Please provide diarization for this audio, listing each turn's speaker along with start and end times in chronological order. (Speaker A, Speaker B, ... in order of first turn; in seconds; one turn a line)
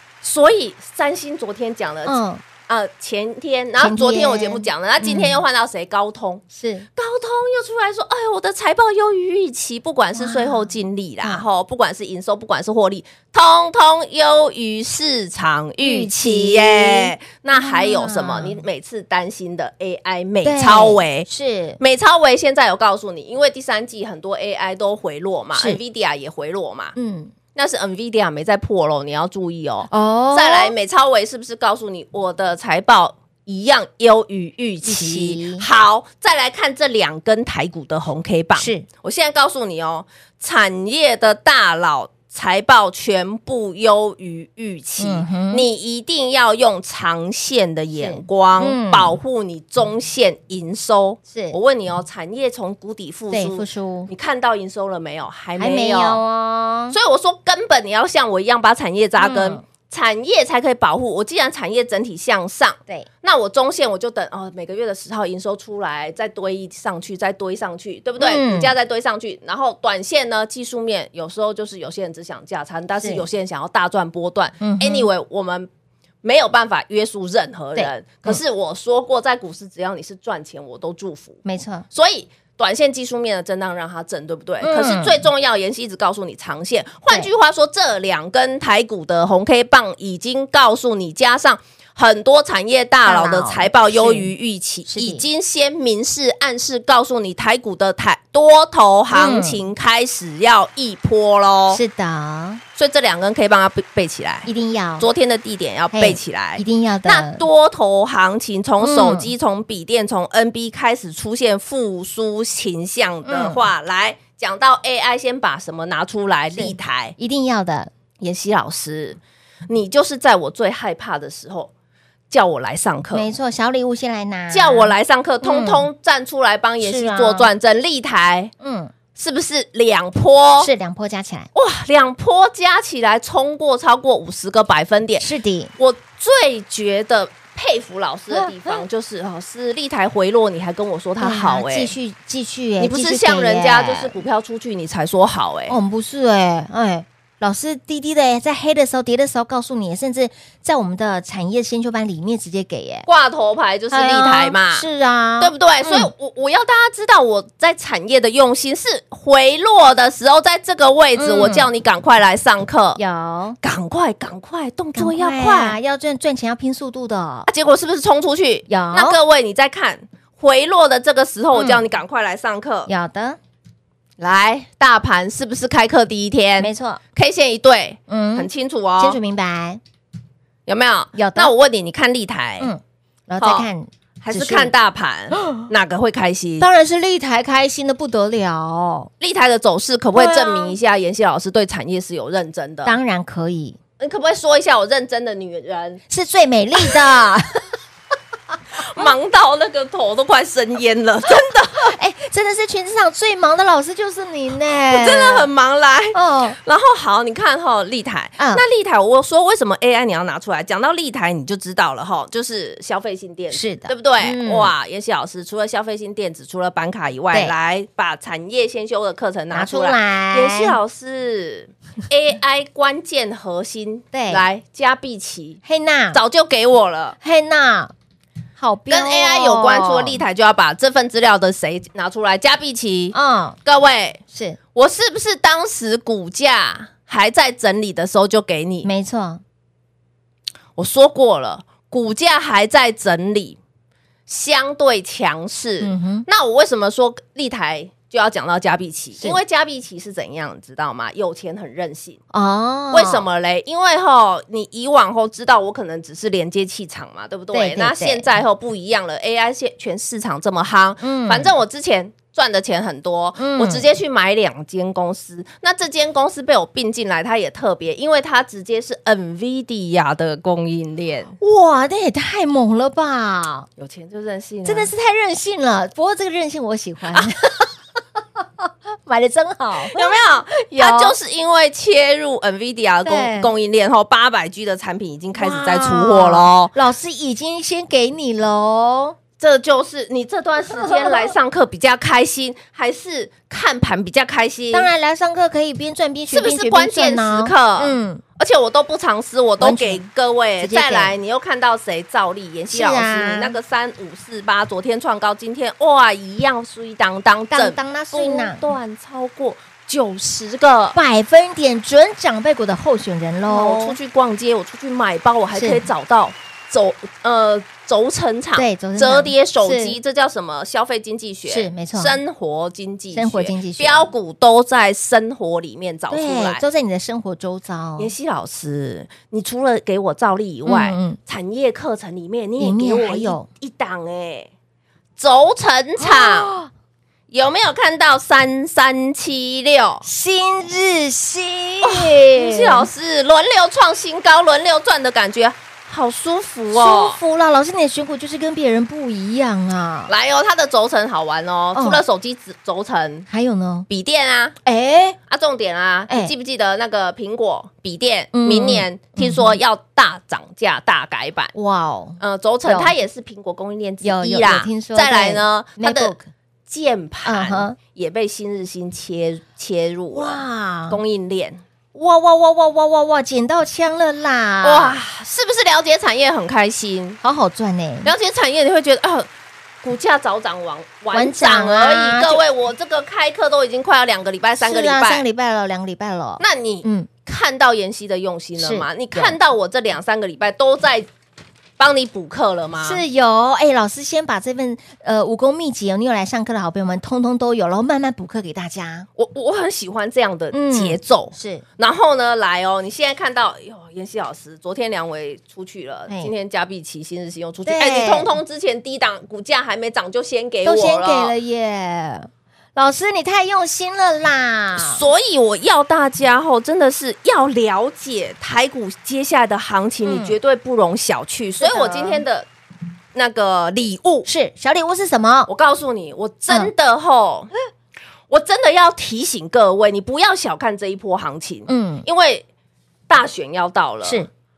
Speaker A: 0.2-6.4
Speaker B: 2.1-2.4
Speaker B: 3.8-5.4
Speaker B: 6.5-6.9
Speaker A: 7.0-21.3
Speaker B: 10.2-11.4
Speaker B: 15.8-18.6
Speaker B: 20.4-21.8
Speaker A: 21.8-26.9
Speaker B: 25.6-25.8
Speaker B: 27.0-27.3
Speaker A: 27.5-56.2
Speaker B: 29.9-30.7
Speaker B: 34.8-35.7
Speaker B: 38.6-38.9
Speaker B: 45.0-45.7
Speaker B: 48.0-49.2
Speaker B: 51.3-51.6
Speaker B: 53.3-54.1
Speaker B: 55.6-57.0
Speaker A: 56.9-75.7
Speaker B: 59.2-59.6
Speaker B: 68.2-68.7
Speaker B: 73.0-73.2
Speaker B: 74.6-75.1
Speaker A: 76.2-81.4
Speaker B: 77.8-78.4
Speaker B: 81.5-81.9
Speaker A: 81.9-101.8
Speaker B: 84.6-85.2
Speaker B: 93.0-94.3
Speaker B: 94.9-95.2
Speaker B: 99.1-99.6
Speaker B: 101.7-102.6
Speaker A: 102.8-117.2
Speaker B: 104.5-105.1
Speaker B: 105.9-107.4
Speaker B: 108.8-109.3
Speaker B: 113.2-113.6
Speaker B: 116.5-117.9
Speaker A: 118.2-121.7
Speaker A: 122.3-123.3
Speaker B: 123.1-125.9
Speaker A: 124.5-128.5
Speaker B: 126.8-127.5
Speaker B: 128.6-128.9
Speaker A: 129.2-130.7
Speaker B: 130.6-131.5
Speaker A: 131.6-135.2
Speaker B: 135.2-135.7
Speaker A: 135.8-141.9
Speaker B: 138.3-138.8
Speaker B: 141.2-144.2
Speaker A: 142.8-145.8
Speaker B: 145.7-153.1
Speaker A: 153.1-154.9
Speaker B: 153.9-156.1
Speaker A: 155.4-163.0
Speaker B: 161.2-161.7
Speaker B: 163.0-163.6
Speaker A: 163.6-165.8
Speaker B: 164.9-167.5
Speaker A: 167.5-172.9
Speaker B: 168.7-169.2
Speaker B: 171.5-171.8
Speaker B: 172.9-173.4
Speaker A: 174.2-179.2
Speaker B: 176.6-177.0
Speaker B: 178.1-179.8
Speaker A: 180.7-182.7
Speaker B: 181.1-181.5
Speaker B: 182.6-184.7
Speaker A: 183.4-183.7
Speaker A: 184.2-186.7
Speaker B: 185.4-185.7
Speaker B: 186.6-189.1
Speaker A: 189.2-192.9
Speaker B: 190.2-190.8
Speaker B: 192.8-193.8
Speaker A: 194.0-196.0
Speaker B: 196.1-197.7
Speaker A: 198.8-201.9
Speaker B: 201.8-205.5
Speaker A: 204.9-225.6
Speaker B: 206.1-206.6
Speaker B: 208.4-208.6
Speaker B: 213.5-214.7
Speaker B: 219.5-220.8
Speaker B: 224.1-224.4
Speaker B: 225.7-226.2
Speaker A: 226.1-227.2
Speaker B: 227.2-227.9
Speaker B: 228.6-230.2
Speaker A: 228.9-234.2
Speaker B: 233.1-233.6
Speaker B: 234.3-234.6
Speaker A: 234.7-238.9
Speaker B: 238.8-239.4
Speaker A: 240.8-243.6
Speaker A: 244.3-252.2
Speaker B: 245.8-246.3
Speaker B: 252.3-253.2
Speaker A: 252.9-271.3
Speaker B: 257.5-258.3
Speaker B: 261.0-261.5
Speaker B: 263.4-263.9
Speaker B: 271.4-273.7
Speaker A: 273.8-274.9
Speaker B: 274.6-281.1
Speaker A: 279.9-286.7
Speaker B: 283.1-283.5
Speaker B: 285.4-289.2
Speaker A: 289.4-294.9
Speaker B: 290.7-291.3
Speaker B: 294.7-298.2
Speaker A: 296.3-311.0
Speaker B: 299.6-300.1
Speaker B: 300.6-301.2
Speaker B: 302.7-303.6
Speaker B: 307.5-308.7
Speaker B: 310.9-314.0
Speaker A: 313.5-326.6
Speaker B: 315.5-315.8
Speaker B: 318.6-320.0
Speaker B: 321.5-322.2
Speaker B: 323.1-324.1
Speaker B: 326.1-328.1
Speaker A: 328.0-334.5
Speaker B: 330.7-331.2
Speaker B: 332.6-333.5
Speaker A: 335.2-336.5
Speaker B: 336.0-336.7
Speaker A: 337.3-340.1
Speaker B: 340.0-342.9
Speaker A: 341.8-347.2
Speaker B: 346.7-350.1
Speaker A: 350.1-353.3
Speaker B: 351.8-352.0
Speaker B: 353.3-353.9
Speaker A: 353.9-354.6
Speaker B: 354.6-355.2
Speaker A: 355.3-361.5
Speaker B: 358.3-359.6
Speaker B: 361.5-362.9
Speaker A: 362.2-366.2
Speaker B: 364.0-366.3
Speaker A: 366.7-371.6
Speaker B: 367.2-367.8
Speaker B: 370.1-371.0
Speaker B: 371.9-375.0
Speaker A: 374.6-377.2
Speaker B: 377.2-378.1
Speaker A: 378.0-379.3
Speaker A: 379.8-385.2
Speaker B: 381.1-382.4
Speaker B: 384.6-387.1
Speaker A: 386.4-391.1
Speaker B: 388.6-389.4
Speaker A: 391.8-393.0
Speaker B: 392.8-399.1
Speaker A: 399.2-411.4
Speaker B: 400.5-401.6
Speaker B: 406.1-406.3
Speaker B: 407.7-408.3
Speaker B: 410.6-415.0
Speaker A: 414.8-422.5
Speaker B: 420.0-420.4
Speaker B: 421.6-422.2
Speaker A: 423.1-424.3
Speaker B: 424.3-425.5
Speaker A: 425.5-427.5
Speaker A: 428.3-432.4
Speaker B: 431.7-432.1
Speaker A: 433.1-434.3
Speaker B: 434.0-434.3